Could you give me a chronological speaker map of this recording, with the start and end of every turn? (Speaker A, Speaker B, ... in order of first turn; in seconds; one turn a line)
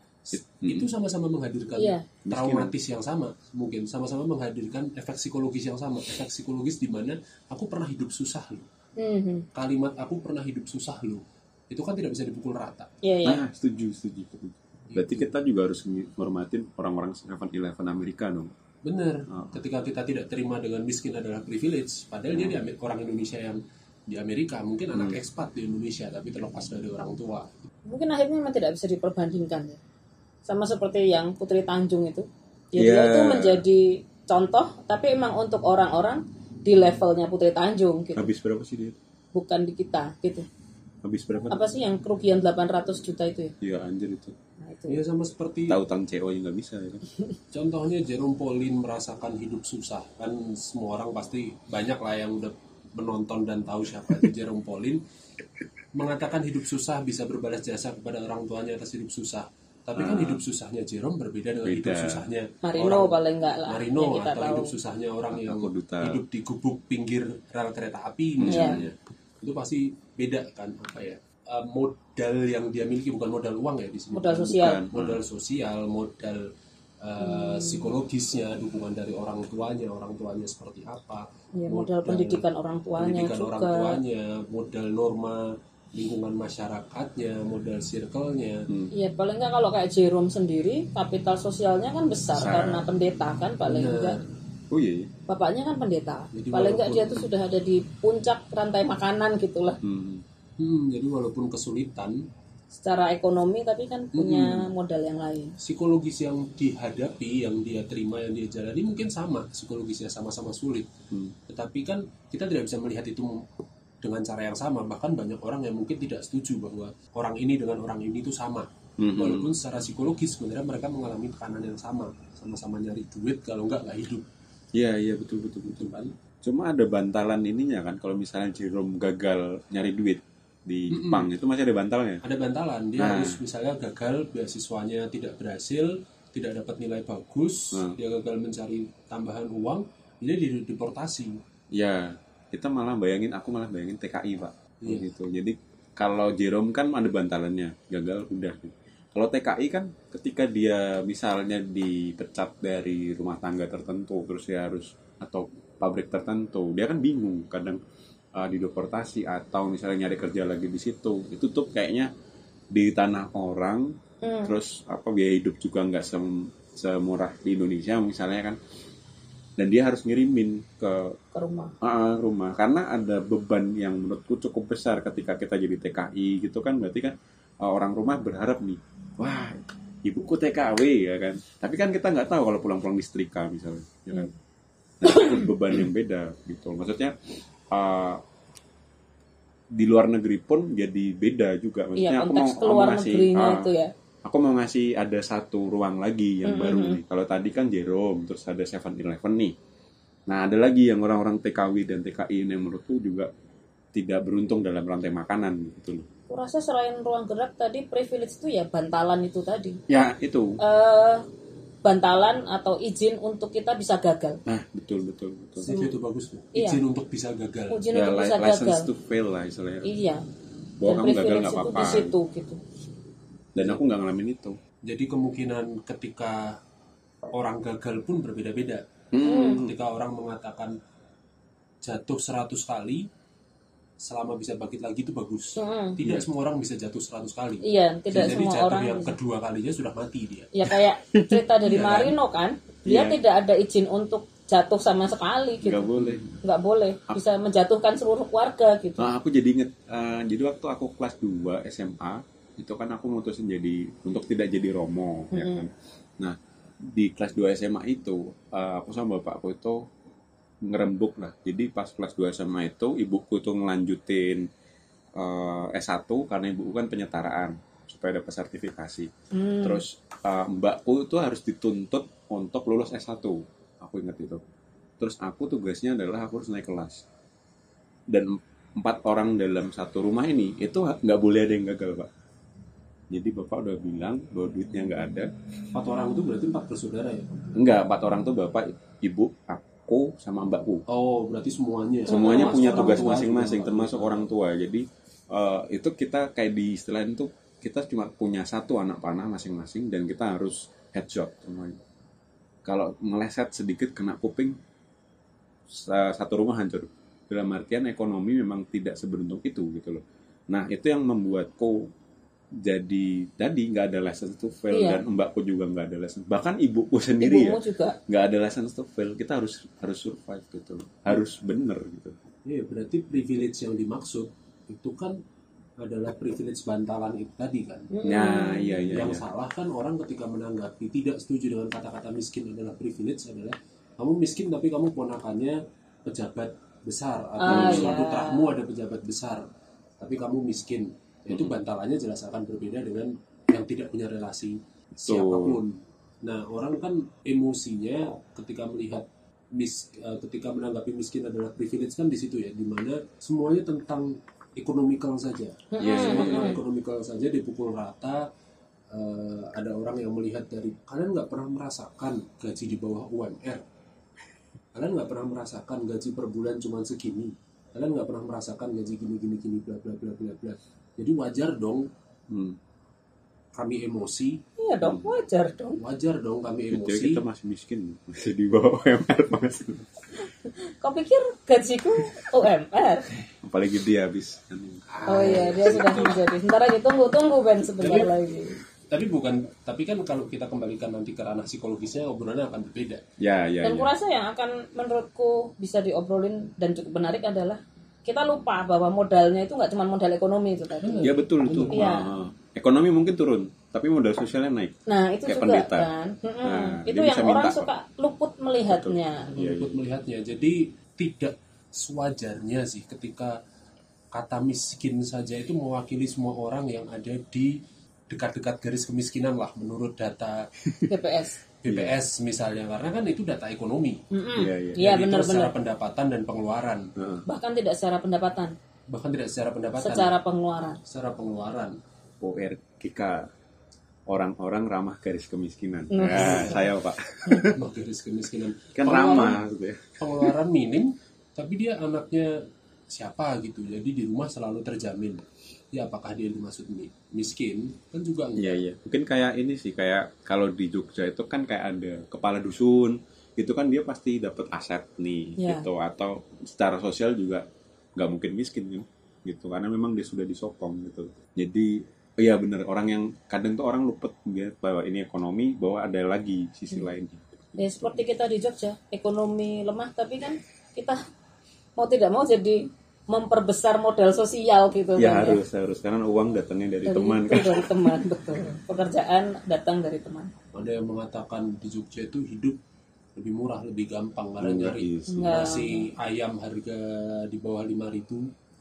Speaker A: 0.3-8.7
Speaker B: 0.3-0.9
Speaker C: 1.8-2.1
Speaker B: 2.2-2.7
Speaker C: 9.0-9.5
Speaker A: 9.5-12.9
Speaker C: 13.0-13.4
Speaker B: 13.2-18.5
Speaker A: 14.9-15.3
Speaker A: 18.9-27.7
Speaker B: 19.3-19.6
Speaker B: 22.3-22.6
Speaker C: 27.9-29.8
Speaker C: 30.5-38.3
Speaker B: 32.8-33.6
Speaker B: 38.1-39.0
Speaker C: 39.3-40.5
Speaker B: 41.0-41.6
Speaker C: 41.5-43.5
Speaker B: 43.6-44.4
Speaker C: 44.6-45.0
Speaker A: 44.9-45.8
Speaker B: 45.7-47.0
Speaker A: 47.5-55.0
Speaker A: 55.9-68.9
Speaker B: 60.0-60.4
Speaker B: 61.6-62.3
Speaker C: 62.6-64.7
Speaker B: 65.3-66.2
Speaker B: 68.4-69.0
Speaker C: 68.5-68.8
Speaker A: 69.4-76.5
Speaker C: 74.1-74.8
Speaker B: 74.5-75.2
Speaker A: 77.0-82.4
Speaker C: 77.2-77.9
Speaker C: 81.5-84.0
Speaker A: 83.0-88.7
Speaker C: 88.9-94.2
Speaker B: 92.3-92.9
Speaker A: 93.6-94.2
Speaker B: 94.7-95.1
Speaker C: 95.3-99.8
Speaker A: 96.3-97.3
Speaker B: 99.8-100.2
Speaker A: 100.6-102.3
Speaker C: 102.7-105.6
Speaker A: 104.1-104.7
Speaker A: 105.6-110.9
Speaker A: 111.5-113.4
Speaker A: 114.0-124.2
Speaker B: 119.0-119.5
Speaker B: 124.7-125.9
Speaker A: 125.7-126.1
Speaker B: 126.4-132.2
Speaker A: 130.9-131.3
Speaker A: 132.2-141.4
Speaker B: 133.0-133.4
Speaker B: 141.7-157.8
Speaker A: 144.8-145.1
Speaker B: 158.3-162.1
Speaker B: 162.7-168.6
Speaker C: 164.2-164.5
Speaker B: 169.6-171.2
Speaker C: 171.3-171.7
Speaker B: 171.8-184.3
Speaker B: 185.0-187.2
Speaker C: 185.1-185.5
Speaker B: 187.7-188.2
Speaker B: 189.7-193.7
Speaker C: 192.0-193.9
Speaker B: 194.2-199.6
Speaker C: 196.4-197.0
Speaker B: 200.3-203.3
Speaker B: 203.9-206.1
Speaker C: 206.3-209.8
Speaker B: 209.9-210.6
Speaker C: 210.6-211.2
Speaker C: 211.8-214.4
Speaker B: 214.5-215.7
Speaker A: 215.6-217.8
Speaker C: 215.7-215.9
Speaker C: 216.6-216.8
Speaker C: 217.7-218.9
Speaker B: 217.9-219.9
Speaker C: 219.8-220.2
Speaker B: 220.8-222.2
Speaker C: 220.8-222.6
Speaker B: 223.6-224.6
Speaker A: 224.9-226.6
Speaker A: 227.3-230.8
Speaker B: 229.1-229.7
Speaker C: 229.2-229.7
Speaker A: 231.8-233.1
Speaker A: 234.0-240.5
Speaker C: 235.6-236.0
Speaker C: 237.6-239.2
Speaker C: 240.5-249.1
Speaker B: 241.1-241.4
Speaker A: 241.6-242.2
Speaker B: 242.8-243.2
Speaker B: 245.6-246.4
Speaker B: 249.0-259.9
Speaker C: 255.3-255.6
Speaker B: 260.6-264.5
Speaker B: 265.2-269.1
Speaker C: 269.3-269.8
Speaker B: 269.6-274.4
Speaker B: 275.0-277.0
Speaker B: 278.1-282.1
Speaker B: 283.1-285.3
Speaker A: 285.7-287.5
Speaker B: 287.6-290.8
Speaker A: 290.9-294.3
Speaker C: 292.1-293.2
Speaker B: 292.1-301.8
Speaker B: 302.6-304.6
Speaker B: 305.7-311.9
Speaker B: 312.6-322.1
Speaker C: 314.7-315.0
Speaker C: 317.2-318.0
Speaker A: 322.5-325.2
Speaker A: 325.8-327.9
Speaker C: 327.9-328.9
Speaker B: 328.0-329.2
Speaker A: 328.9-339.4
Speaker C: 337.4-338.5
Speaker B: 337.5-338.0
Speaker A: 340.0-358.2
Speaker B: 341.3-341.6
Speaker B: 345.1-345.6
Speaker C: 355.7-356.6
Speaker B: 355.8-356.6
Speaker A: 358.9-363.6
Speaker A: 364.8-371.9
Speaker B: 372.3-372.6
Speaker A: 373.6-374.4
Speaker C: 374.6-375.8
Speaker B: 374.8-375.1
Speaker A: 375.8-377.2
Speaker B: 376.7-380.0
Speaker C: 380.2-383.1
Speaker B: 383.4-386.1
Speaker A: 384.9-386.2
Speaker C: 385.1-388.6
Speaker A: 387.8-388.1
Speaker A: 388.9-393.0
Speaker B: 393.2-393.9
Speaker C: 393.6-401.1
Speaker A: 400.8-401.9
Speaker B: 401.0-404.7
Speaker C: 401.7-402.1
Speaker C: 404.9-409.4
Speaker B: 405.2-405.9
Speaker B: 406.4-407.7
Speaker B: 408.7-409.8
Speaker A: 409.3-413.3
Speaker A: 414.1-417.6
Speaker A: 418.1-420.5
Speaker B: 420.6-420.9
Speaker C: 420.9-421.4
Speaker A: 421.6-424.0
Speaker B: 421.7-421.9
Speaker C: 424.1-425.5
Speaker B: 424.4-424.8
Speaker A: 424.8-426.9
Speaker B: 427.0-427.2
Speaker C: 427.3-428.5
Speaker A: 428.9-430.1
Speaker C: 429.8-430.8
Speaker A: 430.8-431.8
Speaker B: 432.2-433.3
Speaker B: 434.1-437.6
Speaker C: 435.9-436.7
Speaker A: 436.1-436.6
Speaker A: 437.5-439.4
Speaker B: 438.8-440.3
Speaker A: 440.0-442.4
Speaker A: 442.9-448.6
Speaker B: 448.4-468.0
Speaker C: 455.4-455.7
Speaker C: 467.6-471.0
Speaker C: 471.8-475.4
Speaker B: 475.0-478.1
Speaker C: 476.9-480.3
Speaker A: 480.5-482.6
Speaker A: 483.2-488.3
Speaker B: 484.4-485.4
Speaker C: 485.1-485.9